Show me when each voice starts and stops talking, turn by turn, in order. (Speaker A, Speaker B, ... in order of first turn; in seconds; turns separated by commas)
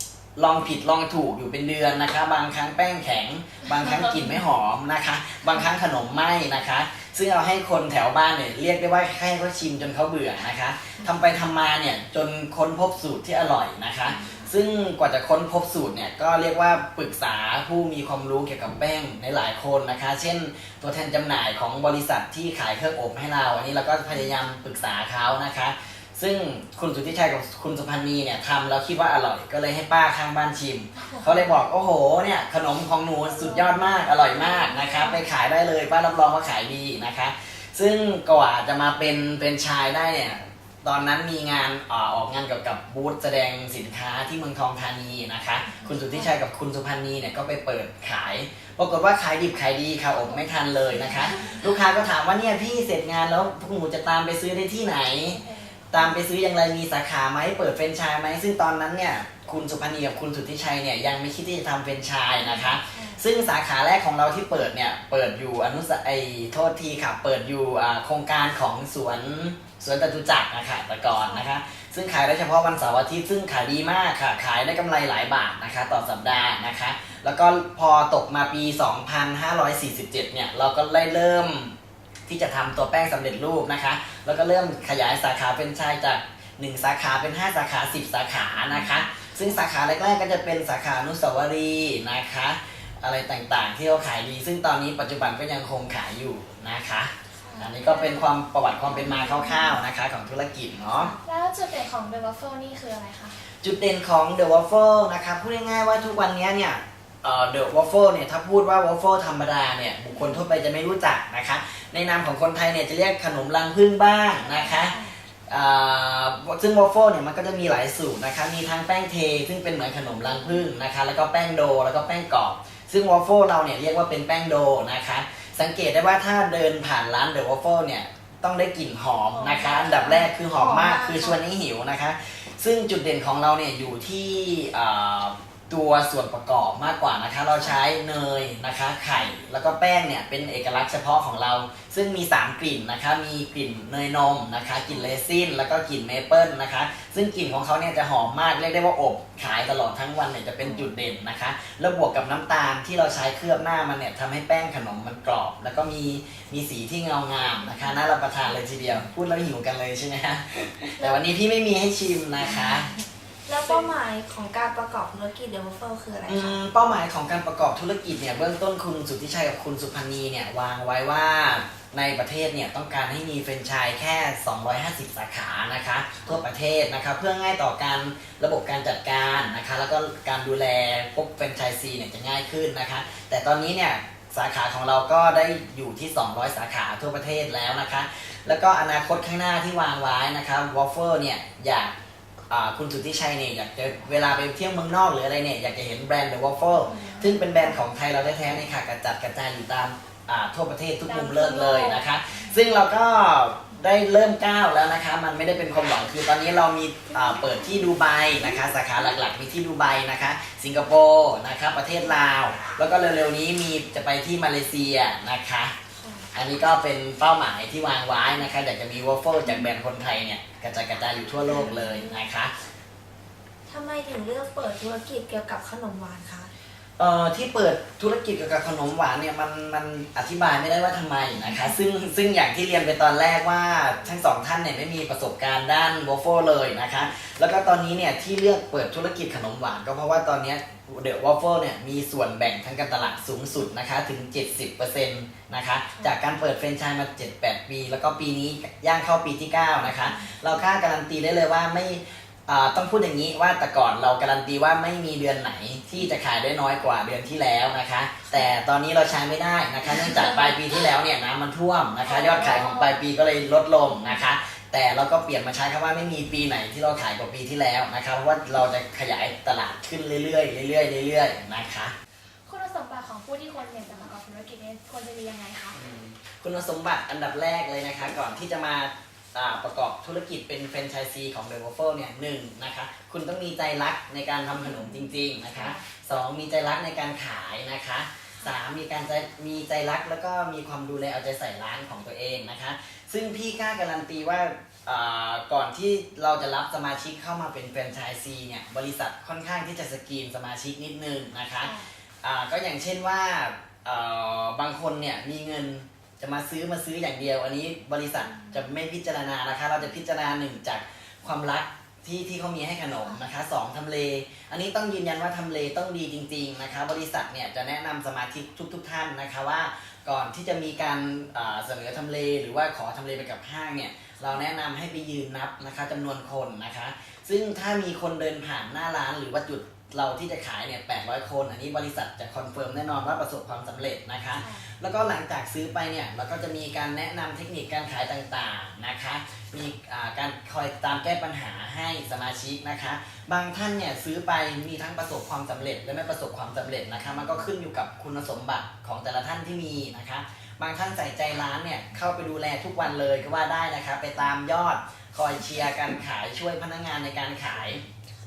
Speaker A: 0.3-81.7, Speaker B: 14.2-14.5, Speaker C: 33.2-35.2, Speaker C: 51.2-51.6, Speaker C: 55.3-56.0, Speaker B: 62.6-63.2, Speaker B: 71.2-71.5, Speaker A: 82.3-101.1, Speaker B: 97.3-97.8, Speaker C: 97.9-98.3, Speaker B: 99.2-99.5, Speaker B: 100.9-101.2, Speaker C: 101.2-103.4, Speaker A: 103.6-162.9, Speaker B: 114.4-115.2, Speaker C: 129.3-130.2, Speaker B: 130.4-131.4, Speaker B: 150.6-150.9, Speaker B: 163.4-166.6, Speaker A: 166.3-191.9, Speaker A: 192.5-215.7, Speaker B: 196.9-197.7, Speaker C: 201.1-202.1, Speaker B: 207.1-207.7, Speaker B: 215.9-216.3, Speaker A: 216.3-222.6, Speaker B: 221.4-222.2, Speaker B: 223.7-226.5, Speaker A: 227.0-271.9, Speaker C: 262.0-263.0, Speaker C: 272.4-275.8, Speaker A: 275.7-357.8, Speaker B: 347.1-347.5